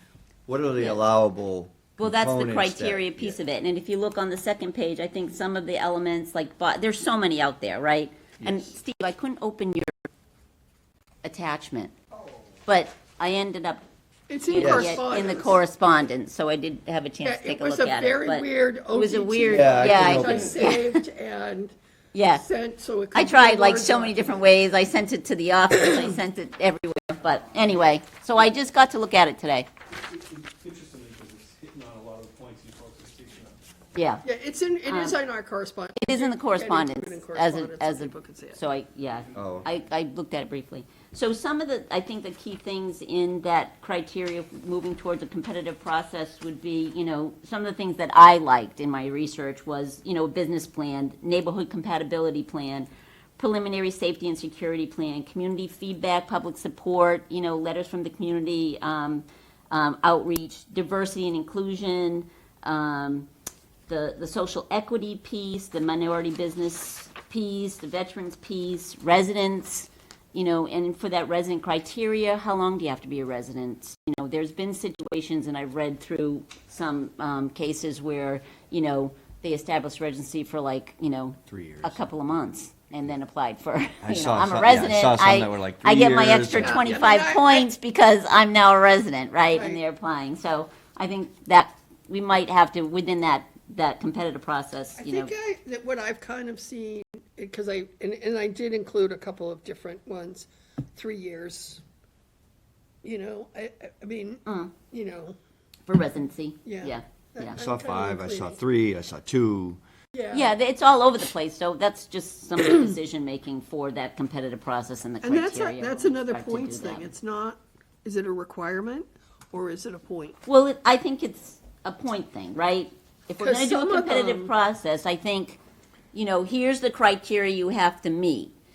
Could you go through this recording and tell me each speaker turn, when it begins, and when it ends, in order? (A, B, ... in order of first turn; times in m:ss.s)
0:00.5-0:03.4 A
0:00.8-0:01.0 B
0:02.0-0:10.0 B
0:08.4-0:08.7 A
0:11.2-0:11.9 B
0:12.7-0:13.8 B
0:14.3-0:15.6 C
0:14.5-0:21.0 B
0:14.5-0:15.0 A
0:17.2-0:21.7 C
0:19.4-0:20.5 A
0:22.1-0:22.4 B
0:22.3-0:24.6 C
0:23.1-0:29.7 B
0:29.9-0:33.6 D
0:33.9-0:34.2 B
0:34.2-0:38.6 C
0:34.9-0:35.2 B
0:36.0-1:03.3 B
0:39.3-0:39.7 A
1:03.9-1:35.3 B
1:21.5-1:22.0 A
1:24.0-1:27.0 A
1:26.5-1:27.7 C
1:29.5-1:29.8 C
1:35.0-1:41.8 C
1:43.0-1:45.4 C
1:44.4-1:44.7 B
1:45.9-1:47.6 B
1:46.6-1:48.6 C
1:47.6-1:49.8 A
1:50.1-1:50.5 C
1:50.3-1:57.1 B
1:55.2-2:00.4 C
2:00.4-2:05.6 B
2:03.4-2:04.5 C
2:06.1-2:08.5 B